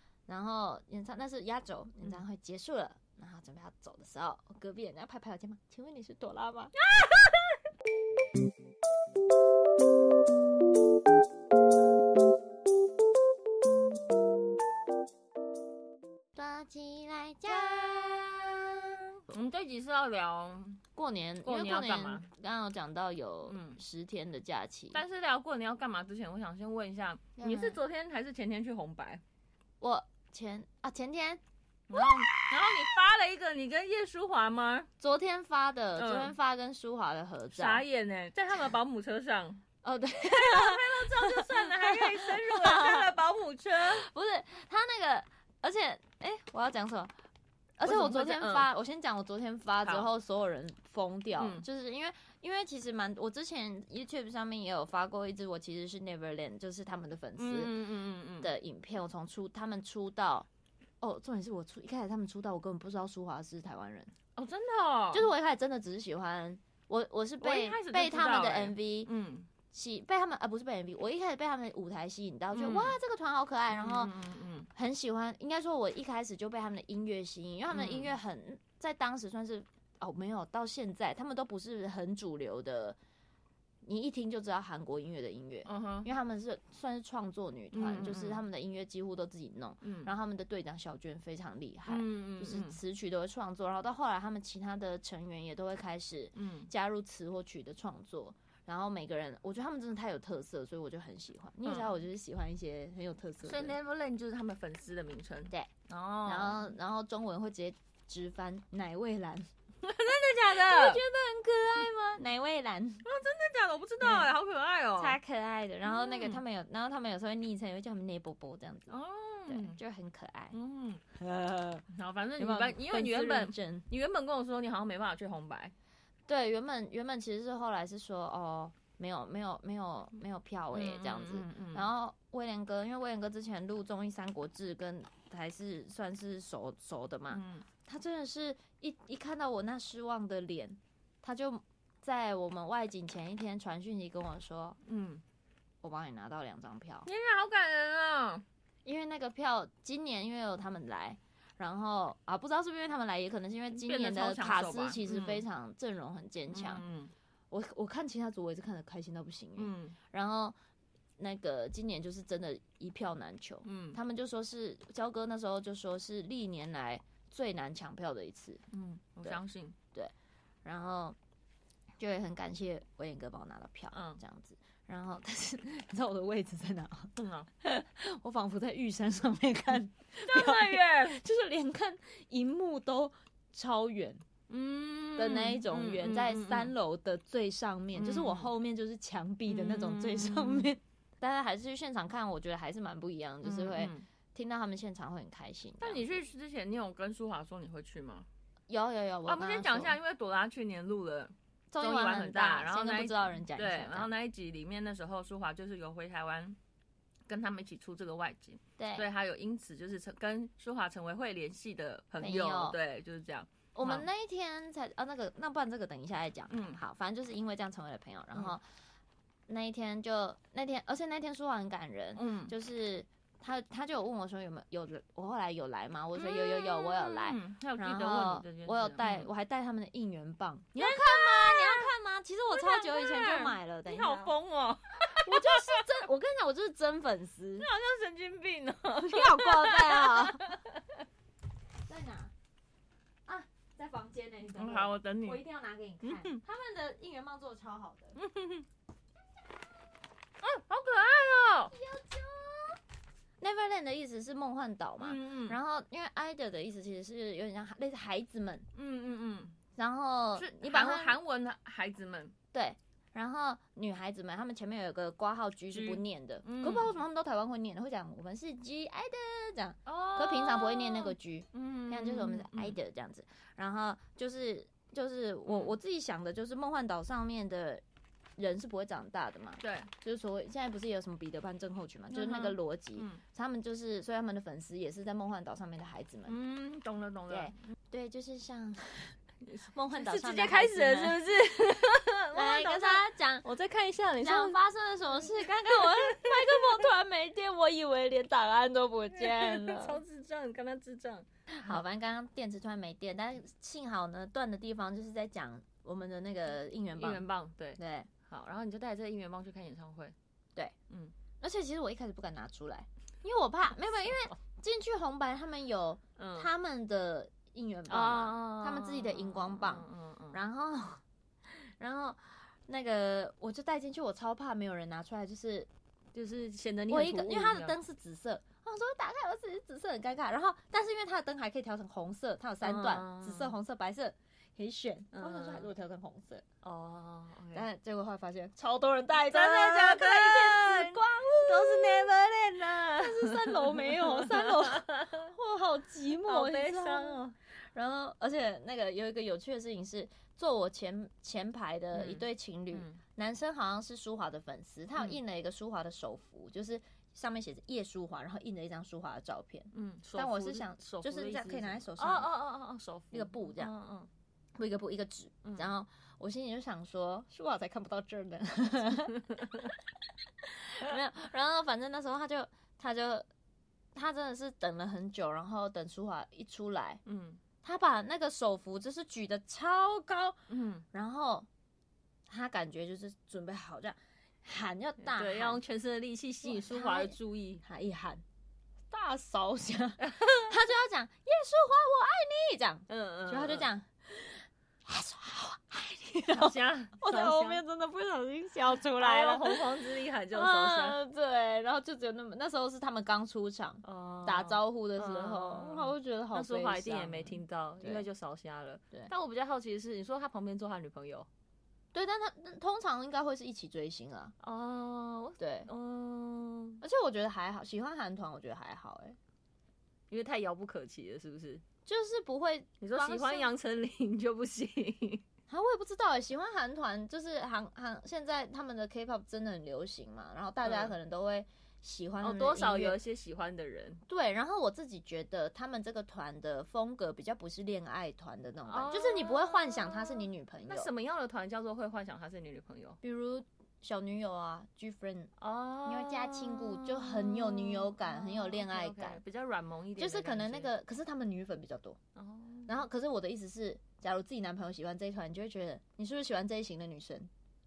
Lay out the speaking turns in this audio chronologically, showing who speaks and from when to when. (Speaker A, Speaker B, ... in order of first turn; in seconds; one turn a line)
Speaker A: 0.3-6.7
Speaker B: 6.8-7.5
Speaker A: 16.3-19.1
Speaker B: 17.5-18.2
Speaker B: 19.3-20.8
Speaker A: 20.9-25.0
Speaker B: 21.4-22.3
Speaker B: 23.4-23.8
Speaker B: 24.9-29.2
Speaker A: 27.4-27.8
Speaker A: 29.8-31.4
Speaker B: 31.9-34.9
Speaker A: 35.0-37.8
Speaker B: 36.0-36.3
Speaker B: 37.5-39.6
Speaker A: 39.8-43.1
Speaker B: 40.2-44.1
Speaker A: 43.9-47.1
Speaker A: 47.8-57.7
Speaker B: 47.8-48.7
Speaker B: 51.4-51.6
Speaker B: 57.4-58.5
Speaker A: 58.4-60.5
Speaker A: 61.0-64.1
Speaker B: 64.3-65.3
Speaker A: 65.1-69.1
Speaker B: 67.4-69.5
Speaker A: 69.7-74.1
Speaker B: 72.5-73.0
Speaker B: 73.7-74.7
Speaker A: 74.7-83.0
Speaker B: 77.7-78.1
Speaker A: 83.8-103.8
Speaker B: 85.6-86.1
Speaker B: 87.7-88.4
Speaker B: 89.8-90.1
Speaker B: 91.9-92.8
Speaker B: 96.3-96.7
Speaker B: 101.6-101.9
Speaker B: 103.4-106.7
Speaker A: 106.2-109.5
Speaker B: 109.8-111.0
Speaker A: 110.4-113.0
Speaker B: 113.0-115.2
Speaker A: 114.0-114.3
Speaker A: 115.0-118.9
Speaker B: 115.8-116.4
Speaker B: 118.9-119.8
Speaker A: 119.5-120.5
Speaker B: 120.5-121.0
Speaker A: 121.2-121.8
Speaker B: 121.9-125.7
Speaker A: 122.4-123.9
Speaker A: 126.3-144.8
Speaker B: 130.7-131.9
Speaker B: 137.3-137.7
Speaker B: 144.8-145.2
Speaker A: 145.8-147.1
Speaker B: 147.0-148.4
Speaker A: 148.8-156.8
Speaker B: 153.7-155.4
Speaker B: 156.5-157.1
Speaker A: 157.5-160.6
Speaker B: 159.6-160.0
Speaker A: 161.2-169.4
Speaker B: 163.6-164.0
Speaker B: 168.7-169.8
Speaker A: 170.6-171.2
Speaker A: 172.0-184.2
Speaker B: 173.9-174.2
Speaker B: 177.2-177.5
Speaker B: 180.2-181.2
Speaker B: 184.5-186.7
Speaker A: 185.2-196.2
Speaker B: 187.9-188.5
Speaker B: 189.5-190.7
Speaker B: 193.4-194.0
Speaker B: 195.8-198.3
Speaker A: 198.7-200.0
Speaker B: 199.3-206.6
Speaker A: 201.7-204.1
Speaker B: 207.3-214.1
Speaker A: 208.8-209.1
Speaker A: 212.2-212.8
Speaker A: 213.7-218.6
Speaker B: 216.5-216.8
Speaker A: 219.5-234.3
Speaker B: 222.2-222.5
Speaker B: 226.2-229.3
Speaker B: 230.8-231.9
Speaker B: 232.5-235.8
Speaker A: 235.1-237.7
Speaker B: 237.6-241.0
Speaker A: 239.0-240.4
Speaker A: 241.9-242.3
Speaker A: 243.2-248.2
Speaker B: 244.6-245.4
Speaker B: 246.0-246.4
Speaker B: 248.1-248.7
Speaker B: 250.4-251.7
Speaker A: 251.7-252.8
Speaker A: 253.4-258.7
Speaker B: 255.0-255.6
Speaker B: 258.7-259.6
Speaker A: 259.8-261.2
Speaker B: 260.3-262.3
Speaker A: 262.5-277.8
Speaker B: 265.7-266.9
Speaker B: 269.9-272.8
Speaker B: 275.5-275.8
Speaker A: 278.4-286.3
Speaker B: 279.6-279.9
Speaker B: 282.1-283.2
Speaker B: 286.2-287.6
Speaker A: 287.3-289.1
Speaker B: 289.4-294.6
Speaker A: 289.7-291.2
Speaker A: 292.3-293.5
Speaker A: 294.2-300.0
Speaker B: 295.2-296.8
Speaker B: 299.1-301.8
Speaker A: 301.5-307.2
Speaker B: 307.0-310.1
Speaker A: 307.8-308.1
Speaker A: 311.4-325.7
Speaker B: 316.2-316.5
Speaker B: 317.9-320.4
Speaker B: 326.1-327.8
Speaker A: 326.9-336.4
Speaker B: 332.6-333.5
Speaker B: 335.1-335.7
Speaker B: 336.6-337.6
Speaker A: 337.5-342.1
Speaker B: 339.3-345.3
Speaker A: 342.9-362.3
Speaker B: 346.2-347.3
Speaker B: 351.9-353.0
Speaker B: 359.7-364.1
Speaker A: 363.1-363.7
Speaker A: 364.6-369.7
Speaker B: 365.4-365.7
Speaker B: 369.2-369.7
Speaker A: 370.4-373.3
Speaker A: 373.9-377.0
Speaker B: 377.0-377.4
Speaker A: 377.6-380.4
Speaker B: 380.5-380.8
Speaker A: 380.9-381.5
Speaker A: 382.3-385.6
Speaker B: 385.0-387.6
Speaker A: 386.4-388.2
Speaker A: 388.9-408.1
Speaker B: 390.0-390.5
Speaker B: 392.9-393.7
Speaker B: 396.3-397.6
Speaker B: 398.9-401.0
Speaker B: 403.8-411.3
Speaker A: 411.9-414.3
Speaker B: 414.4-416.8
Speaker A: 415.4-415.7
Speaker A: 416.8-419.2
Speaker B: 420.1-421.6
Speaker A: 421.9-423.5
Speaker B: 422.8-425.2
Speaker A: 425.5-433.0
Speaker B: 430.6-430.9
Speaker B: 432.2-434.0
Speaker A: 434.1-440.9
Speaker B: 438.6-443.0
Speaker A: 443.0-445.3
Speaker B: 445.4-450.7
Speaker A: 445.8-449.2
Speaker A: 449.9-452.0
Speaker B: 452.1-452.7
Speaker A: 452.7-457.3